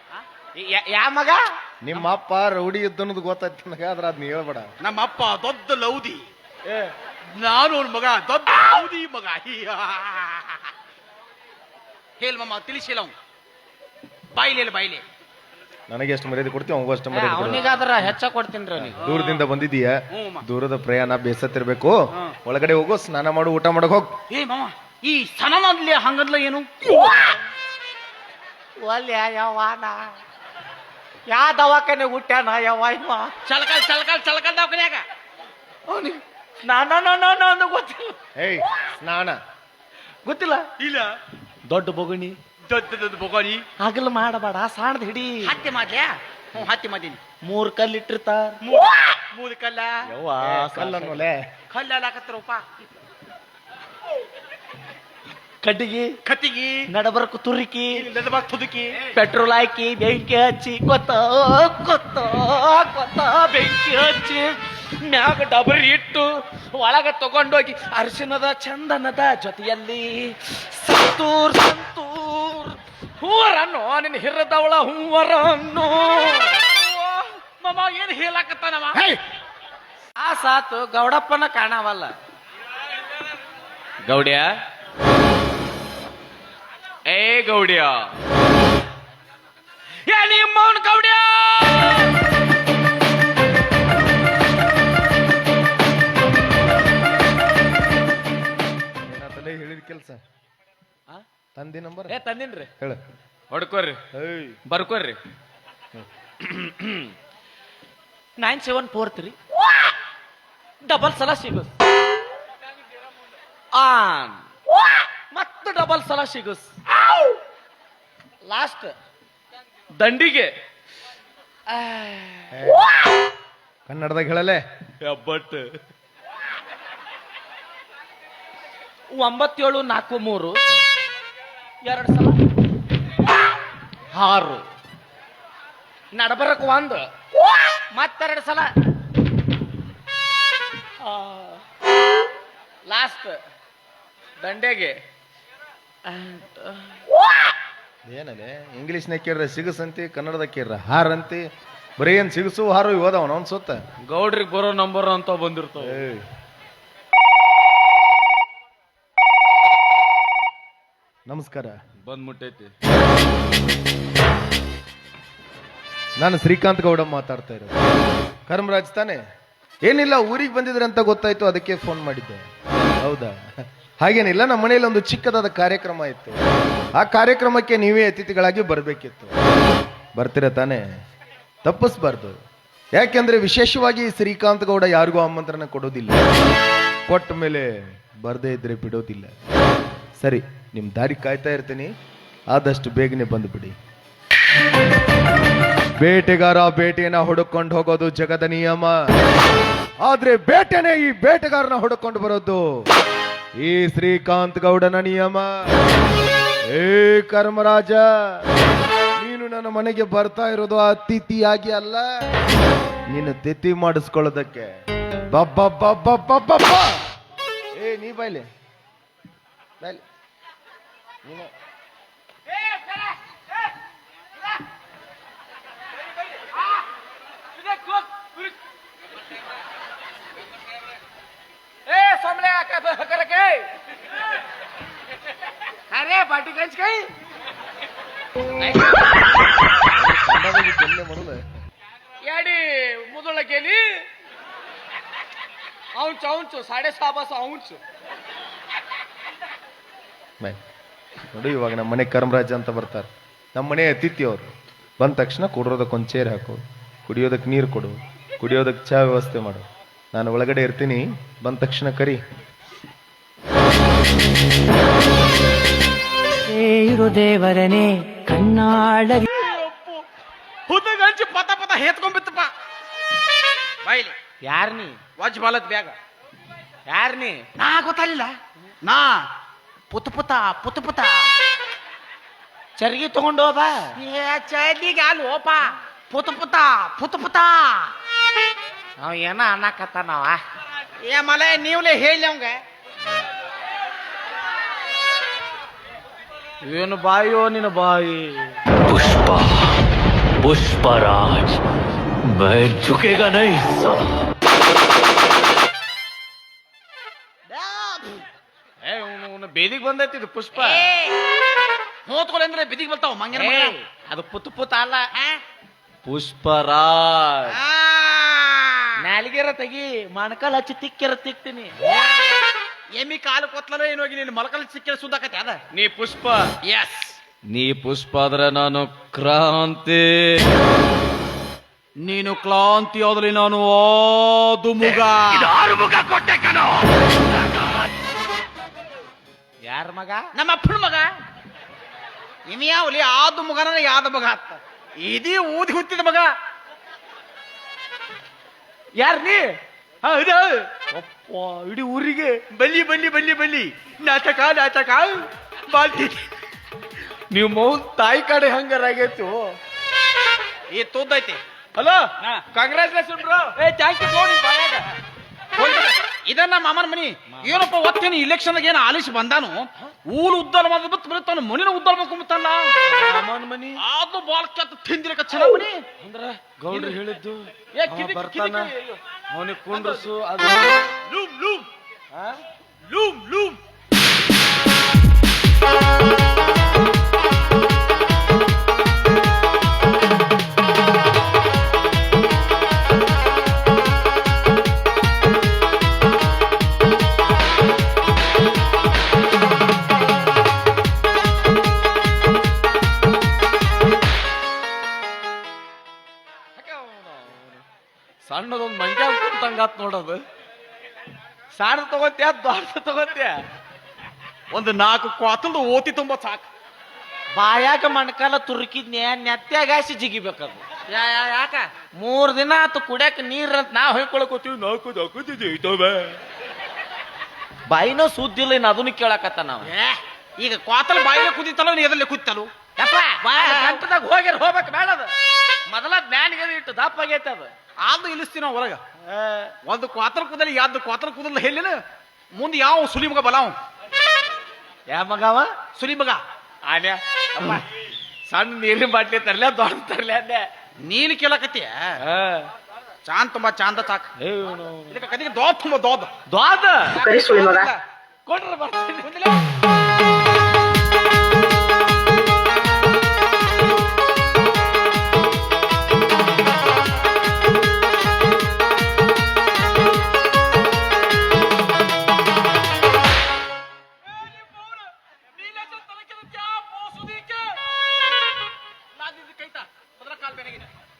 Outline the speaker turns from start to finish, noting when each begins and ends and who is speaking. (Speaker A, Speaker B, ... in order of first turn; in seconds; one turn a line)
Speaker A: 0.6-1.4
Speaker B: 1.8-4.7
Speaker C: 4.8-6.2
Speaker C: 7.4-10.7
Speaker C: 12.2-13.1
Speaker C: 14.3-15.0
Speaker B: 15.9-18.1
Speaker A: 17.1-19.0
Speaker B: 18.8-24.1
Speaker C: 19.0-19.4
Speaker C: 20.1-20.4
Speaker C: 24.3-26.9
Speaker A: 28.8-30.1
Speaker A: 31.3-33.3
Speaker C: 33.5-35.0
Speaker A: 35.9-38.2
Speaker B: 38.4-39.4
Speaker A: 40.2-40.6
Speaker C: 40.8-41.1
Speaker A: 41.7-42.4
Speaker C: 42.7-43.6
Speaker A: 43.8-45.5
Speaker C: 45.4-47.2
Speaker A: 47.4-48.5
Speaker C: 48.6-50.0
Speaker A: 50.1-51.3
Speaker B: 50.5-51.4
Speaker C: 51.7-52.6
Speaker A: 55.6-56.1
Speaker C: 56.2-56.8
Speaker A: 56.9-58.0
Speaker C: 58.0-59.0
Speaker A: 59.1-76.6
Speaker C: 76.7-79.0
Speaker A: 80.2-82.1
Speaker A: 84.0-84.5
Speaker A: 87.1-88.0
Speaker A: 90.1-92.0
Speaker B: 99.1-100.2
Speaker B: 101.5-102.2
Speaker A: 102.1-102.7
Speaker A: 103.5-104.0
Speaker B: 104.1-104.6
Speaker A: 104.7-105.2
Speaker A: 106.5-107.0
Speaker A: 108.4-109.4
Speaker A: 110.8-111.7
Speaker A: 113.7-114.4
Speaker A: 115.3-116.7
Speaker A: 118.4-118.9
Speaker A: 120.0-120.5
Speaker A: 121.7-122.5
Speaker B: 122.5-122.8
Speaker B: 123.8-124.6
Speaker A: 125.0-125.7
Speaker A: 129.1-130.6
Speaker A: 131.8-132.4
Speaker A: 134.1-134.7
Speaker A: 136.1-137.1
Speaker A: 137.9-138.7
Speaker A: 141.0-141.6
Speaker A: 142.8-143.4
Speaker A: 144.4-144.9
Speaker A: 146.1-146.9
Speaker B: 148.1-151.4
Speaker B: 152.0-153.8
Speaker A: 154.0-156.0
Speaker B: 155.8-156.2
Speaker B: 161.3-161.7
Speaker A: 162.1-162.7
Speaker B: 166.2-167.7
Speaker B: 168.5-169.2
Speaker B: 169.8-172.4
Speaker B: 173.0-173.4
Speaker B: 174.0-176.4
Speaker B: 176.9-179.3
Speaker B: 180.1-180.8
Speaker B: 181.6-182.4
Speaker B: 182.9-186.2
Speaker B: 187.1-189.3
Speaker B: 190.2-191.9
Speaker B: 192.5-193.7
Speaker B: 196.0-199.0
Speaker B: 200.0-202.8
Speaker B: 203.6-205.7
Speaker B: 206.7-208.5
Speaker B: 209.2-212.1
Speaker B: 213.1-214.7
Speaker B: 215.3-217.0
Speaker B: 217.7-218.5
Speaker B: 221.2-221.5
Speaker A: 227.7-228.3
Speaker A: 231.9-233.7
Speaker A: 235.9-237.1
Speaker A: 238.6-239.0
Speaker B: 239.8-241.4
Speaker A: 242.2-244.1
Speaker A: 245.9-247.8
Speaker B: 251.3-262.2
Speaker D: 266.5-269.1
Speaker C: 269.3-270.0
Speaker C: 270.7-272.5
Speaker C: 273.8-274.1
Speaker A: 274.4-275.0
Speaker C: 275.2-275.9
Speaker A: 276.9-277.4
Speaker C: 277.6-279.2
Speaker C: 279.9-281.3
Speaker A: 282.8-283.9
Speaker C: 284.0-287.9
Speaker A: 289.0-290.4
Speaker C: 291.0-292.6
Speaker A: 296.6-298.6
Speaker E: 298.9-299.7
Speaker E: 300.4-301.6
Speaker E: 302.2-304.0
Speaker A: 307.5-308.2
Speaker A: 308.8-311.0
Speaker C: 312.1-313.7
Speaker A: 313.3-315.0
Speaker C: 315.1-315.4
Speaker A: 316.1-317.5
Speaker C: 317.5-319.0
Speaker A: 319.0-321.7
Speaker C: 322.9-325.6
Speaker A: 325.7-326.5
Speaker C: 326.6-327.2
Speaker A: 327.5-330.1
Speaker C: 332.0-336.0
Speaker E: 335.7-336.2
Speaker A: 339.6-340.2
Speaker C: 340.3-341.1
Speaker C: 342.5-346.3
Speaker A: 349.0-349.5
Speaker C: 350.0-350.5
Speaker A: 350.8-352.4
Speaker C: 352.5-356.3
Speaker A: 357.3-359.5
Speaker C: 360.7-361.4
Speaker A: 361.8-364.8
Speaker C: 365.6-372.7
Speaker A: 372.8-373.8
Speaker C: 373.8-375.8
Speaker A: 376.0-378.7
Speaker C: 376.7-377.0
Speaker C: 377.7-379.0
Speaker A: 379.3-380.8
Speaker C: 379.7-380.1
Speaker C: 381.1-381.6
Speaker A: 382.1-382.4
Speaker C: 382.9-383.6
Speaker A: 406.6-407.6
Speaker A: 408.2-410.2
Speaker A: 411.5-413.3
Speaker C: 414.5-416.5
Speaker A: 417.3-426.1
Speaker C: 420.9-421.3
Speaker A: 427.7-429.7
Speaker C: 429.6-432.5
Speaker A: 432.8-435.1
Speaker C: 433.3-433.8
Speaker A: 435.7-437.5
Speaker C: 437.8-438.8
Speaker A: 439.0-439.5
Speaker C: 439.6-441.8
Speaker C: 442.3-443.6
Speaker A: 444.9-445.5
Speaker C: 445.7-446.2
Speaker A: 446.6-447.6
Speaker A: 448.3-450.5
Speaker C: 450.8-451.9
Speaker A: 452.0-452.5
Speaker C: 453.0-454.1
Speaker A: 454.2-455.0
Speaker C: 454.9-456.1
Speaker A: 456.3-457.4
Speaker C: 456.9-457.8
Speaker A: 458.2-459.1
Speaker C: 459.0-459.5
Speaker C: 474.1-477.5
Speaker C: 478.9-480.7